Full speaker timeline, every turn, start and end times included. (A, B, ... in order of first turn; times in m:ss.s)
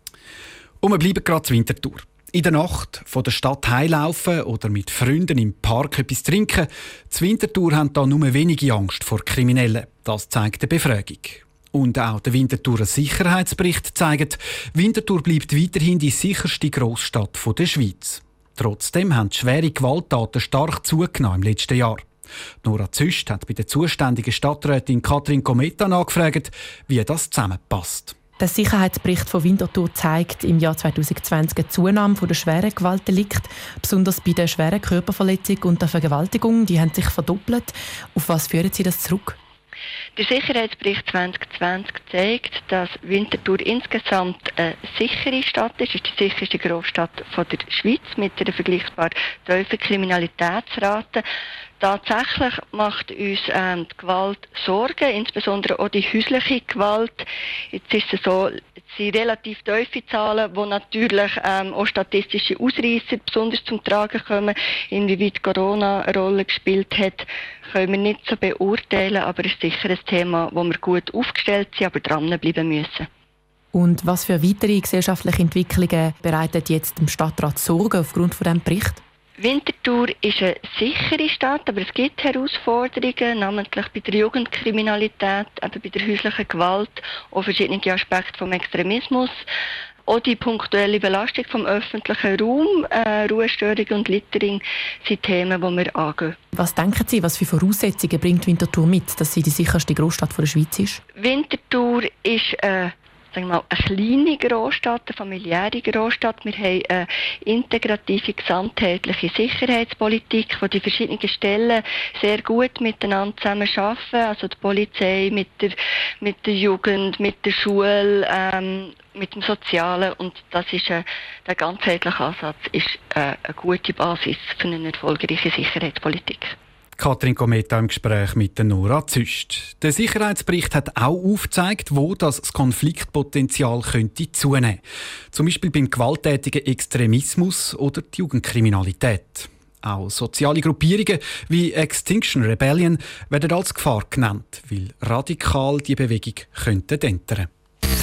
0:00.8-0:22.1 A
0:22.6-0:28.2 A
0:28.4-0:39.4 B
0:40.2-0:51.2 C
0:51.8-1:13.1 C
1:13.7-1:19.0 B
1:19.4-1:29.4 C
1:30.1-1:36.4 C
1:36.6-1:41.0 B
1:41.2-2:06.6 C
2:07.0-2:27.5 A